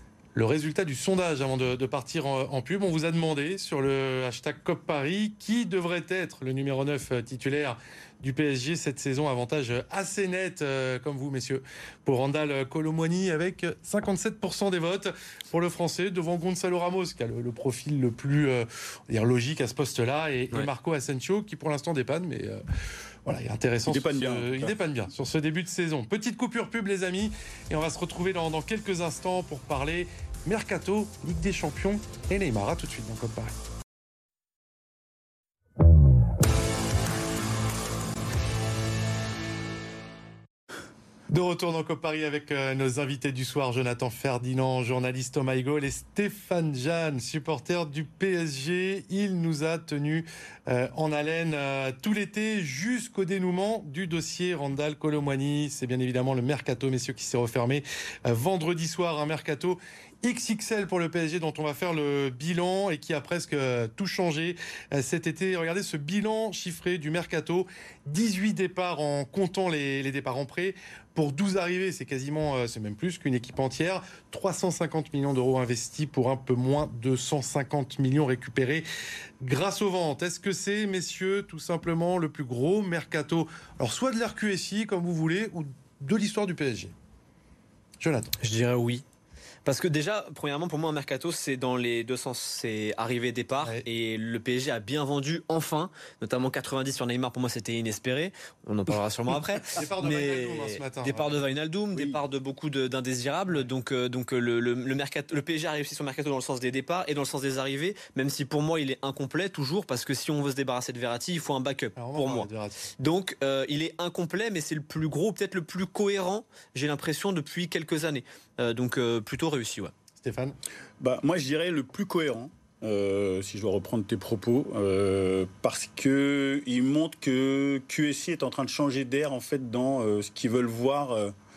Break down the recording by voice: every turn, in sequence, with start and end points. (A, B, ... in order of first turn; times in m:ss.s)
0:00.4-0:22.6 A
0:23.3-0:33.5 A
0:23.9-0:24.8 B
0:41.3-1:18.8 A
1:19.4-1:26.9 A
1:28.0-1:28.3 A
1:28.4-1:29.0 C
1:29.6-1:52.5 C
1:39.7-1:41.4 A
1:41.9-1:42.2 B
1:52.0-1:52.8 A
1:53.0-1:59.9 C
2:00.2-2:00.6 A
2:01.0-2:11.3 B